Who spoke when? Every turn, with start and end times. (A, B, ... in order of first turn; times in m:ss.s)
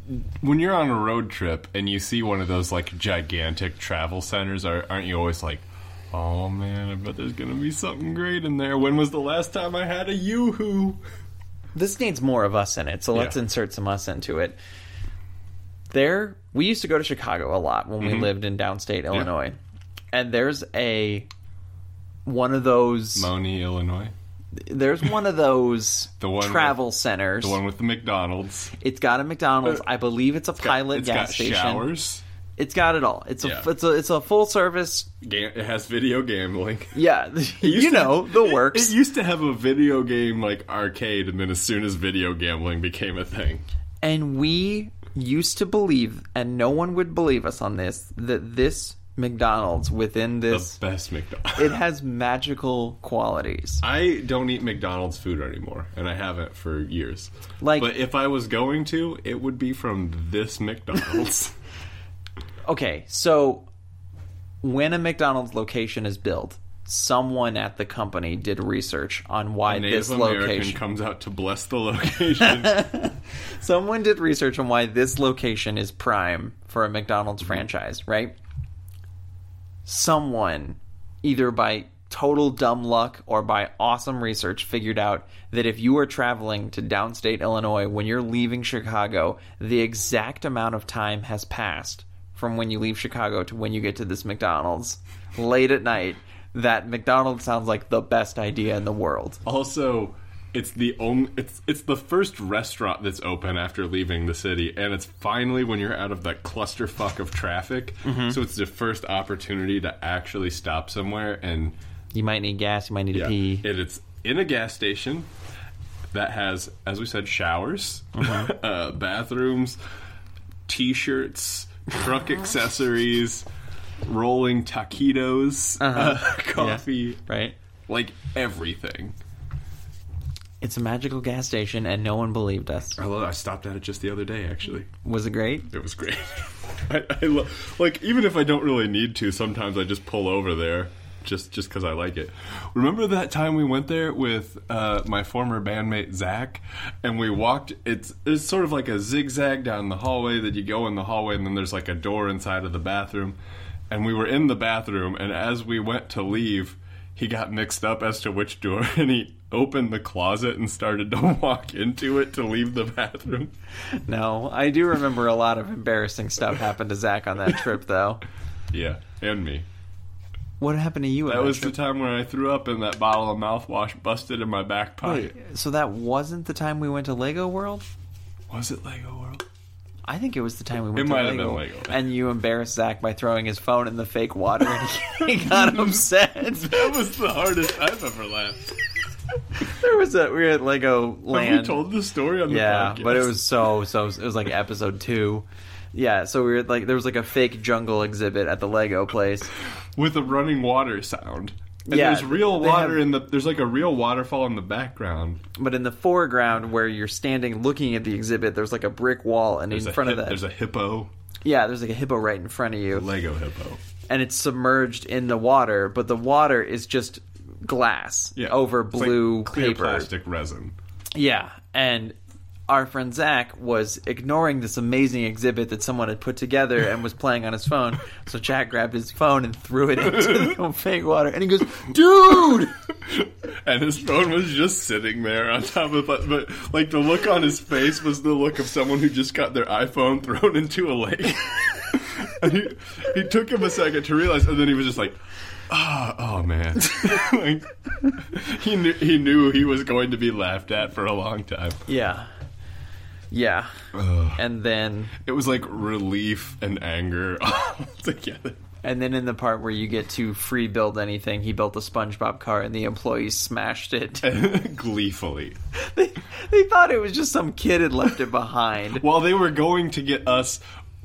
0:00.4-0:11.0 A
0:11.7-0:14.6 B
0:15.9-0:19.6 B
0:18.0-0:18.3 A
0:20.1-0:21.3 B
0:22.2-0:23.3 B
0:23.1-0:24.1 A
0:24.6-0:27.6 B
0:26.2-0:26.8 A
0:27.4-0:28.7 A
0:28.8-0:31.9 B
0:30.6-0:32.2 A
0:32.6-0:35.1 B
0:33.4-0:33.7 A
0:35.2-0:37.0 A
0:36.9-0:38.9 B
0:37.6-0:43.6 A
0:44.0-0:50.8 B
0:50.5-0:51.8 A
0:51.6-0:53.8 B
0:53.8-1:01.6 A
0:57.6-0:57.9 B
1:02.6-1:03.6 B
1:04.6-1:10.8 B
1:09.7-1:12.9 A
1:12.4-1:18.4 B
1:19.8-1:39.4 B
1:39.4-1:51.8 A
1:48.0-1:48.4 B
1:52.1-1:53.6 B
1:53.1-1:55.3 A
1:56.1-1:59.8 A
1:58.2-1:58.5 B
2:00.7-2:03.4 A
2:04.0-2:07.2 A
2:05.8-2:07.5 B
2:07.9-2:09.2 A
2:10.6-2:13.0 B
2:13.0-2:14.9 A
2:15.0-2:15.7 B
2:15.7-2:33.4 A
2:33.9-2:43.5 A
2:44.0-2:48.2 B
2:48.7-2:49.6 A
2:50.6-2:51.7 B
2:51.2-2:55.3 A
2:55.0-2:57.9 B
2:58.5-2:59.4 A
3:00.0-3:06.8 B
3:00.9-3:02.0 A
3:05.2-3:08.7 A
3:09.6-3:11.8 B
3:11.3-3:13.4 A
3:12.5-3:19.5 B
3:19.9-3:25.4 A
3:21.9-3:23.0 B
3:25.6-3:30.4 B
3:29.7-3:31.1 A
3:31.4-3:33.1 B
3:32.9-3:33.8 A
3:34.1-3:40.1 B
3:38.4-3:40.8 A
3:41.1-3:42.2 B
3:42.7-3:52.6 B
3:51.9-4:11.8 A
4:11.9-4:12.3 B
4:13.3-4:13.7 B
4:13.9-4:14.4 A
4:14.3-4:15.1 B
4:15.1-4:18.6 A
4:18.8-4:24.3 B
4:24.2-4:25.6 A
4:25.8-4:29.0 B
4:29.0-4:30.6 A